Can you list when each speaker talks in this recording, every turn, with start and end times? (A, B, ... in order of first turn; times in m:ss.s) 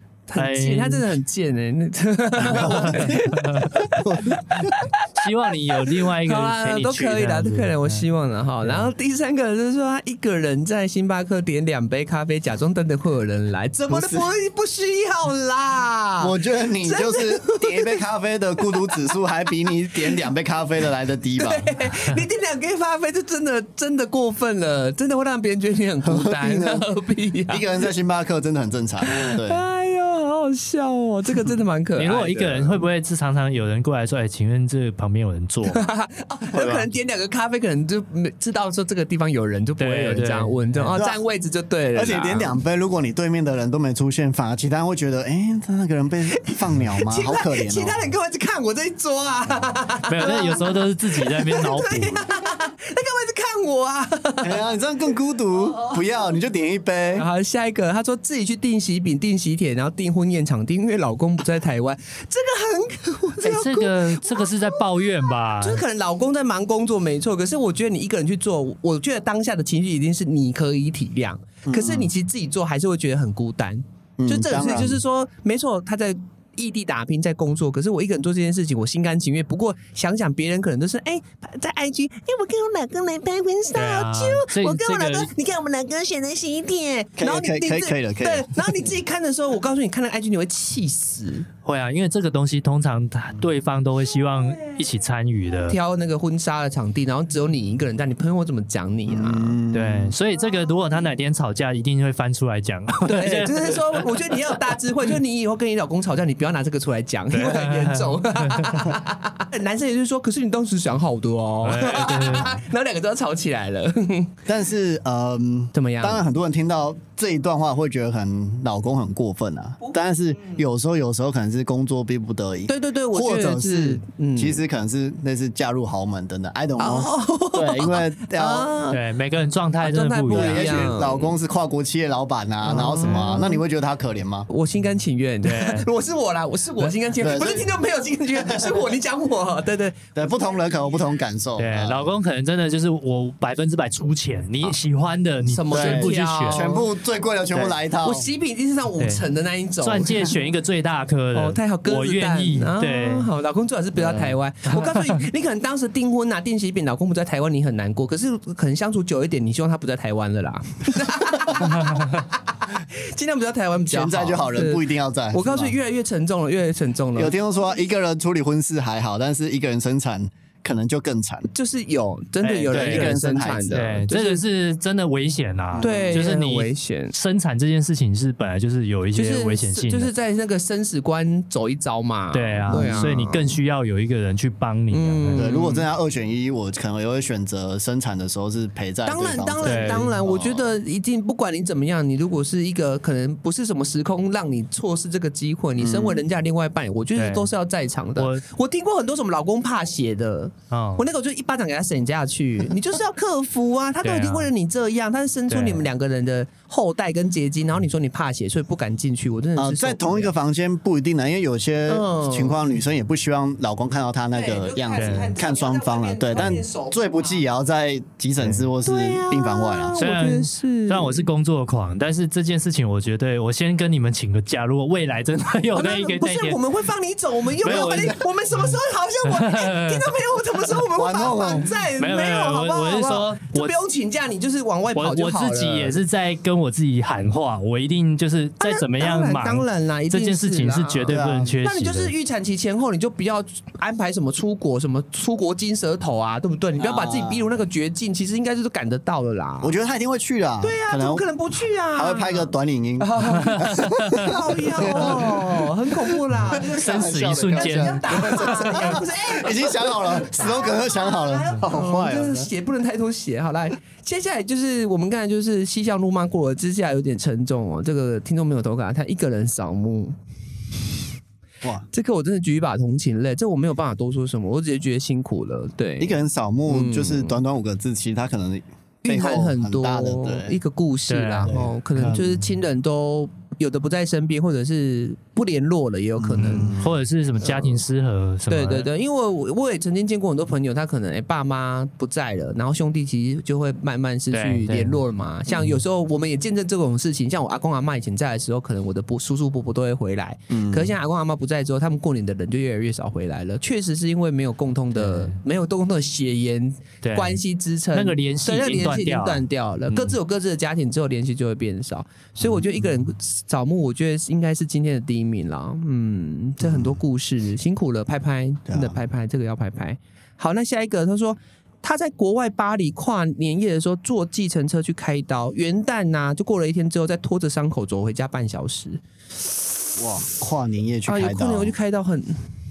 0:00.3-0:18.0 A
0:00.4-0:01.0 B
0:02.4-0:03.2 C
0:02.6-0:03.7 B
0:03.8-0:04.7 C
0:05.2-0:08.0 B
0:08.6-0:08.9 B
0:13.9-0:14.3 C
0:16.2-0:21.7 C
0:21.4-0:27.6 A
0:26.0-0:26.8 C
0:27.5-0:29.6 C
0:29.1-0:32.8 A
0:32.0-0:35.8 B
0:35.7-0:42.6 A
0:36.5-0:36.9 C
0:39.8-0:40.9 B
0:41.9-0:48.1 C
0:46.4-0:54.6 A
0:50.1-0:52.2 B
0:54.4-0:57.3 C
0:57.2-1:04.8 A
1:03.4-1:05.8 B
1:05.6-1:31.5 A
1:11.7-1:12.1 C
1:14.2-1:15.0 C
1:23.7-1:25.3 B
1:27.2-1:28.9 C
1:31.6-1:35.8 B
1:35.7-1:39.6 A
1:39.1-1:40.1 C
1:39.7-1:44.0 B
1:43.1-1:54.3 A
1:47.3-1:48.9 B
1:51.6-1:52.6 B
1:54.5-2:08.7 C
1:55.7-1:56.2 A
1:59.8-2:00.6 A
2:02.7-2:04.6 A
2:06.8-2:09.0 A
2:08.9-2:10.9 B
2:09.8-2:11.3 A
2:10.3-2:14.5 C
2:12.6-2:13.6 A
2:14.5-2:20.1 A
2:15.4-2:15.9 B
2:17.2-2:17.8 C
2:18.4-2:18.8 C
2:20.2-2:22.1 C
2:21.6-2:26.7 B
2:25.4-2:26.9 A
2:25.7-2:28.3 C
2:28.0-2:30.3 A
2:29.0-2:29.2 B
2:29.8-2:33.3 B
2:31.3-2:47.3 A
2:34.7-2:35.0 B
2:43.9-2:45.8 C
2:47.2-2:51.5 C
2:51.5-2:54.4 A
2:52.4-2:53.2 B
2:52.7-2:53.9 C
2:53.7-3:00.1 B
2:55.7-2:56.2 C
2:55.8-2:57.2 A
2:59.1-3:03.6 A
3:02.3-3:05.4 B
3:02.7-3:03.2 C
3:04.9-3:05.9 A
3:05.3-3:10.7 C
3:09.0-3:30.3 A
3:09.6-3:10.1 B
3:15.8-3:16.2 C
3:17.2-3:17.5 B
3:18.2-3:18.4 B
3:20.7-3:21.0 B
3:24.0-3:24.5 B
3:25.5-3:25.9 B
3:29.6-3:40.0 C
3:31.9-3:32.6 A
3:34.3-3:37.4 A
3:35.0-3:35.3 B
3:38.4-3:38.7 B
3:38.8-3:41.2 A
3:40.0-3:46.6 B
3:45.7-3:56.0 A
3:47.6-3:48.7 B
3:49.3-3:50.1 B
3:50.9-3:51.8 C
3:52.0-3:53.7 B
3:55.0-4:02.1 B
3:58.6-4:09.8 A
4:01.1-4:01.6 C
4:06.8-4:07.4 C
4:09.6-4:11.3 C
4:10.6-4:30.2 A
4:11.9-4:22.5 C
4:13.4-4:14.3 B
4:16.5-4:18.9 B
4:31.9-4:37.4 A
4:36.0-4:40.6 C
4:39.0-4:46.8 A
4:41.1-4:41.6 B
4:41.5-4:42.4 C
4:46.2-4:47.0 C
4:46.8-4:48.9 B
4:47.4-4:47.8 A
4:48.5-5:29.0 A
4:54.3-4:55.0 B
5:00.5-5:00.9 C
5:05.0-5:05.4 B
5:07.0-5:07.4 B
5:07.9-5:10.2 B
5:12.4-5:12.8 C
5:16.6-5:17.0 C
5:18.7-5:19.0 C
5:30.0-5:31.8 C
5:31.1-5:32.5 A